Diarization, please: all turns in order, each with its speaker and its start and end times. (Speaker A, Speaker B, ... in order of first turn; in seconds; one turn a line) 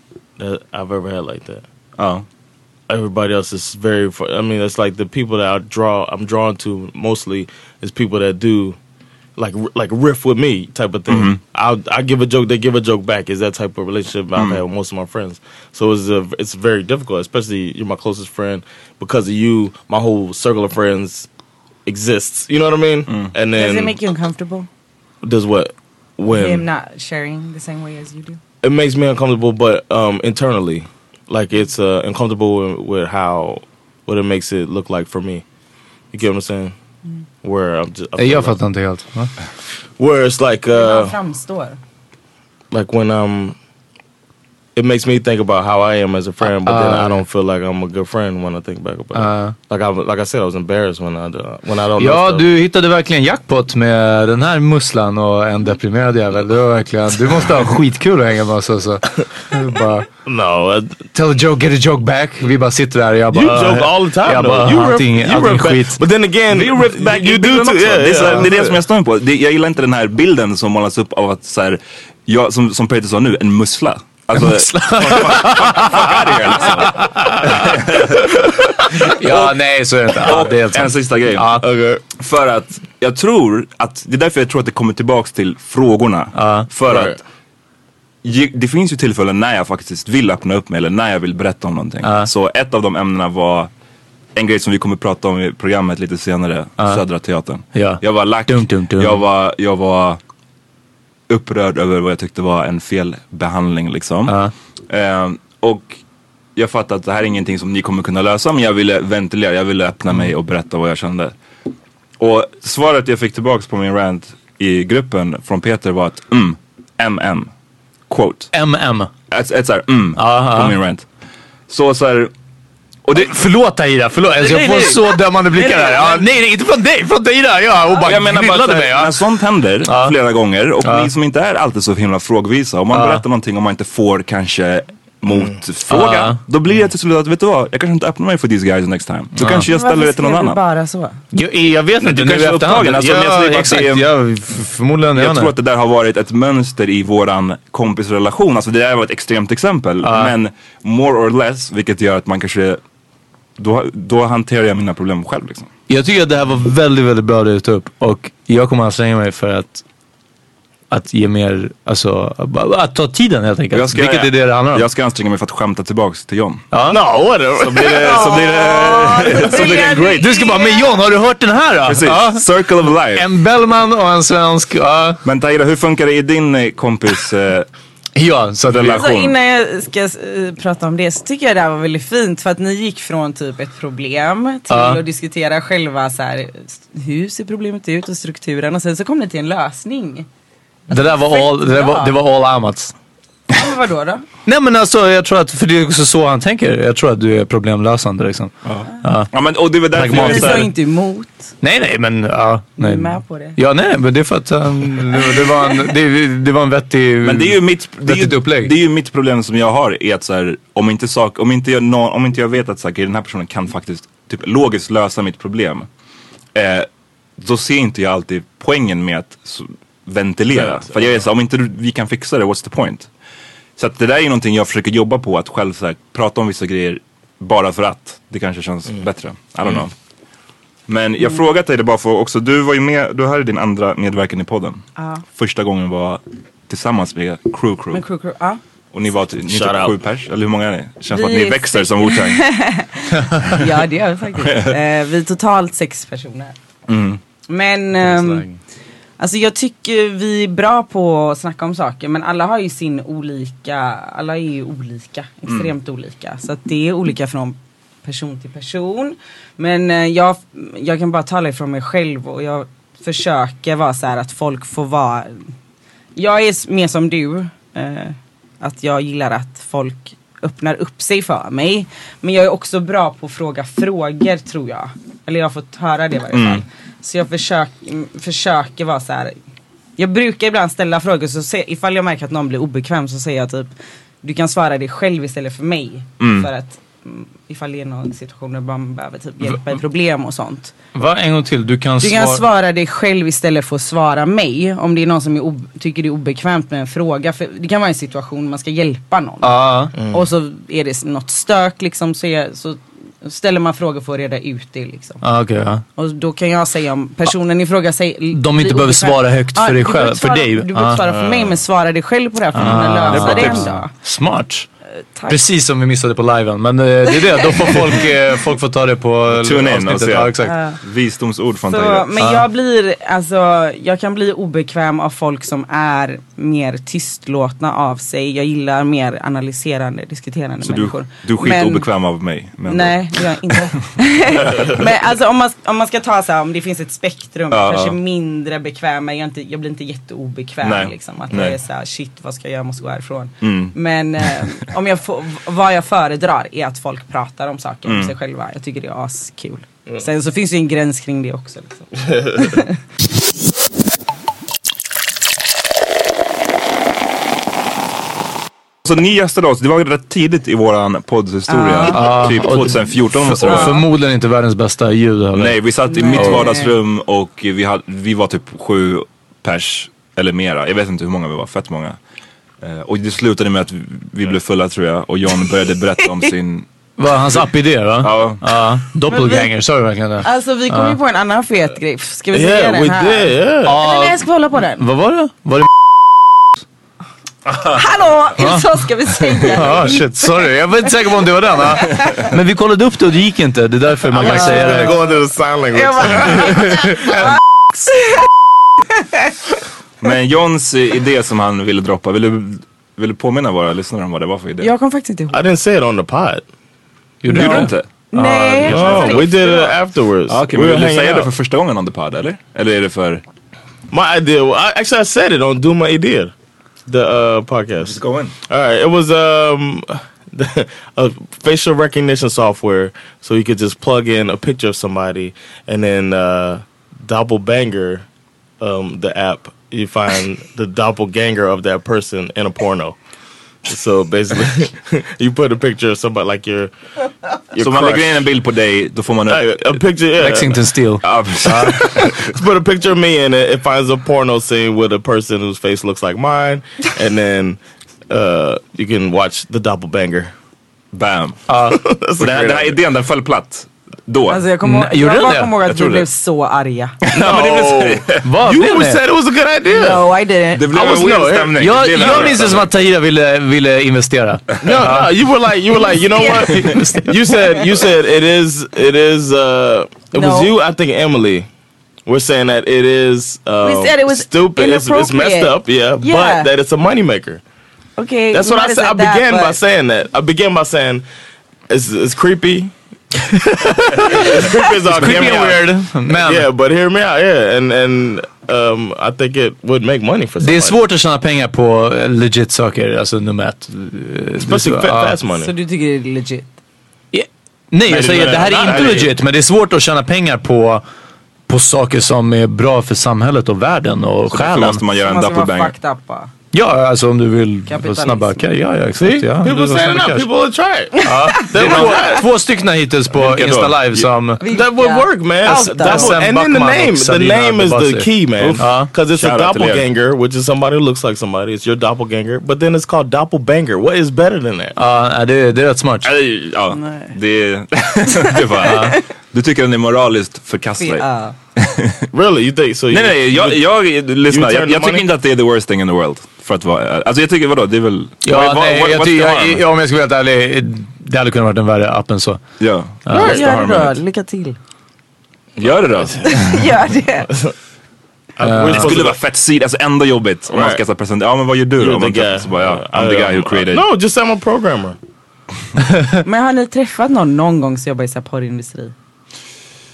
Speaker A: 0.4-1.6
Speaker B: 2.0-2.2
Speaker A: 2.9-8.8
Speaker A: 9.4-21.3
Speaker B: 11.1-11.4
Speaker B: 14.3-14.6
Speaker A: 21.9-23.9
Speaker C: 23.6-24.7
Speaker A: 25.2-26.6
Speaker C: 26.3-28.4
Speaker A: 28.6-35.4
Speaker A: 36.1-36.7
Speaker A: 37.4-38.5
Speaker D: 38.2-39.3
Speaker A: 40.0-41.1
Speaker C: 40.7-41.8
Speaker A: 42.7-43.5
Speaker A: 44.8-52.5
Speaker D: 46.4-47.2
Speaker D: 49.1-49.6
Speaker D: 52.0-60.1
Speaker A: 60.2-61.0
Speaker D: 61.1-66.0
Speaker A: 63.3-68.8
Speaker B: 66.5-78.3
Speaker D: 74.3-77.7
Speaker B: 79.0-79.5
Speaker D: 79.0-81.7
Speaker B: 80.2-81.5
Speaker A: 81.6-82.0
Speaker B: 82.2-87.2
Speaker D: 86.3-86.7
Speaker A: 86.8-87.2
Speaker B: 88.2-93.7
Speaker D: 92.0-92.3
Speaker B: 94.3-100.2
Speaker D: 97.7-99.2
Speaker B: 101.3-104.4
Speaker D: 104.3-104.5
Speaker B: 104.9-106.0
Speaker B: 106.5-111.3
Speaker B: 112.2-117.5
Speaker B: 118.1-118.5
Speaker D: 118.5-119.1
Speaker B: 119.3-121.0
Speaker D: 120.2-120.8
Speaker B: 121.7-122.3
Speaker B: 123.0-123.4
Speaker D: 123.2-130.2
Speaker C: 125.8-126.1
Speaker B: 128.0-140.6
Speaker D: 130.8-131.1
Speaker D: 132.9-133.2
Speaker A: 135.3-135.5
Speaker D: 135.9-136.4
Speaker D: 139.3-139.7
Speaker C: 139.7-141.2
Speaker D: 141.3-145.5
Speaker B: 142.0-144.1
Speaker B: 145.1-152.8
Speaker D: 150.0-150.3
Speaker B: 153.6-155.7
Speaker D: 155.9-159.8
Speaker D: 160.9-164.8
Speaker B: 163.7-166.6
Speaker D: 166.7-167.0
Speaker A: 166.9-168.5
Speaker B: 167.6-170.3
Speaker C: 168.0-171.0
Speaker D: 170.1-175.2
Speaker B: 171.8-173.3
Speaker B: 175.2-177.7
Speaker D: 178.2-179.0
Speaker B: 178.7-179.3
Speaker C: 178.9-190.3
Speaker D: 184.7-185.0
Speaker C: 190.9-192.1
Speaker D: 190.9-192.9
Speaker C: 193.5-194.2
Speaker D: 194.4-199.3
Speaker B: 198.6-200.7
Speaker D: 199.9-200.7
Speaker C: 200.1-201.5
Speaker D: 201.6-208.7
Speaker C: 202.8-203.6
Speaker B: 207.2-215.9
Speaker B: 216.5-216.9
Speaker B: 217.4-223.1
Speaker A: 220.5-221.2
Speaker B: 223.8-229.9
Speaker B: 230.9-238.0
Speaker C: 235.0-235.2
Speaker C: 237.9-238.6
Speaker B: 238.9-242.4
Speaker A: 239.4-239.9
Speaker C: 241.1-246.5
Speaker B: 244.4-244.8
Speaker B: 246.9-247.2
Speaker C: 247.5-248.4
Speaker C: 249.2-265.4
Speaker C: 266.1-279.4
Speaker B: 276.3-276.6
Speaker C: 280.0-283.7
Speaker C: 284.2-290.7
Speaker B: 286.2-286.5
Speaker D: 290.9-292.4
Speaker C: 292.0-305.2
Speaker D: 299.4-299.9
Speaker A: 299.9-300.2
Speaker D: 305.2-305.8
Speaker C: 305.9-313.9
Speaker D: 308.3-311.0
Speaker A: 311.0-311.6
Speaker D: 312.5-314.7
Speaker B: 312.6-313.6
Speaker C: 315.1-315.4
Speaker D: 315.3-320.6
Speaker B: 319.3-322.2
Speaker C: 320.4-320.8
Speaker C: 321.7-331.9
Speaker D: 322.2-322.4
Speaker B: 330.6-333.6
Speaker C: 332.7-352.7
Speaker B: 334.4-334.7
Speaker B: 337.5-337.9
Speaker B: 340.6-341.6
Speaker B: 343.4-343.7
Speaker B: 347.9-348.1
Speaker A: 352.0-352.5
Speaker B: 358.8-363.8
Speaker C: 361.5-362.0
Speaker D: 361.9-365.6
Speaker C: 363.5-363.7
Speaker B: 365.3-372.0
Speaker C: 365.9-366.7
Speaker D: 366.1-366.6
Speaker B: 372.6-376.6
Speaker D: 377.0-381.0
Speaker B: 378.0-378.4
Speaker C: 379.1-379.5
Speaker C: 380.2-384.8
Speaker A: 382.3-383.8
Speaker D: 383.6-384.2
Speaker D: 384.8-385.7
Speaker C: 387.6-390.5
Speaker D: 388.4-388.7
Speaker D: 389.5-395.1
Speaker C: 391.7-392.2
Speaker A: 394.1-396.7
Speaker C: 394.3-395.1
Speaker C: 395.7-397.1
Speaker D: 396.6-397.3
Speaker C: 397.9-398.2
Speaker B: 400.0-404.7
Speaker C: 404.6-405.4
Speaker A: 405.3-406.4
Speaker D: 407.2-409.2
Speaker B: 407.3-407.9
Speaker C: 407.3-409.7
Speaker A: 408.6-411.3
Speaker B: 408.7-409.2
Speaker B: 410.3-413.2
Speaker A: 413.9-416.3
Speaker A: 416.9-428.0
Speaker B: 417.9-418.3
Speaker A: 428.6-432.9
Speaker A: 433.7-436.7
Speaker A: 437.5-438.3
Speaker B: 437.6-439.8
Speaker A: 439.3-440.6
Speaker D: 440.1-441.8
Speaker B: 441.0-442.3
Speaker A: 441.8-450.3
Speaker B: 450.9-451.4
Speaker D: 451.5-451.8
Speaker A: 451.7-452.8
Speaker B: 452.2-454.4
Speaker C: 454.3-456.9
Speaker D: 454.6-455.6
Speaker B: 455.7-456.0
Speaker B: 457.1-458.2
Speaker A: 457.1-460.1
Speaker D: 458.2-459.1
Speaker C: 459.7-461.0
Speaker B: 460.5-462.7
Speaker A: 460.7-462.4
Speaker D: 461.6-465.1
Speaker A: 464.6-471.5
Speaker D: 466.1-467.2
Speaker C: 466.2-466.7
Speaker C: 470.1-470.5
Speaker A: 472.1-477.4
Speaker C: 473.6-476.5
Speaker C: 478.0-479.6
Speaker A: 478.3-481.0
Speaker A: 481.7-482.7
Speaker D: 483.2-486.5
Speaker A: 484.0-490.8
Speaker D: 490.4-495.2
Speaker A: 494.4-495.5
Speaker C: 495.4-496.5
Speaker D: 497.1-500.8
Speaker A: 497.9-499.1
Speaker D: 501.5-504.8
Speaker B: 504.3-505.7
Speaker C: 505.0-506.3
Speaker D: 506.5-510.3
Speaker C: 507.7-508.4
Speaker A: 508.9-512.3
Speaker D: 511.0-514.5
Speaker B: 511.6-511.9
Speaker B: 513.1-513.8
Speaker A: 514.0-524.8
Speaker C: 514.4-516.1
Speaker D: 515.4-518.9
Speaker B: 518.4-519.9
Speaker D: 524.8-526.1
Speaker B: 526.0-531.0
Speaker C: 526.7-527.1
Speaker D: 528.6-529.0
Speaker C: 530.8-531.3
Speaker B: 531.6-532.0
Speaker A: 532.1-533.6
Speaker B: 532.9-539.6
Speaker A: 534.3-535.0
Speaker D: 538.2-542.4
Speaker B: 542.6-544.0
Speaker D: 543.1-543.4
Speaker A: 543.1-543.4
Speaker C: 543.2-544.6
Speaker B: 545.6-546.6
Speaker A: 545.6-546.3
Speaker C: 546.2-547.3
Speaker A: 548.4-549.2
Speaker D: 548.4-549.0
Speaker B: 548.7-553.8
Speaker A: 550.5-550.8
Speaker A: 551.8-555.0
Speaker C: 556.2-558.9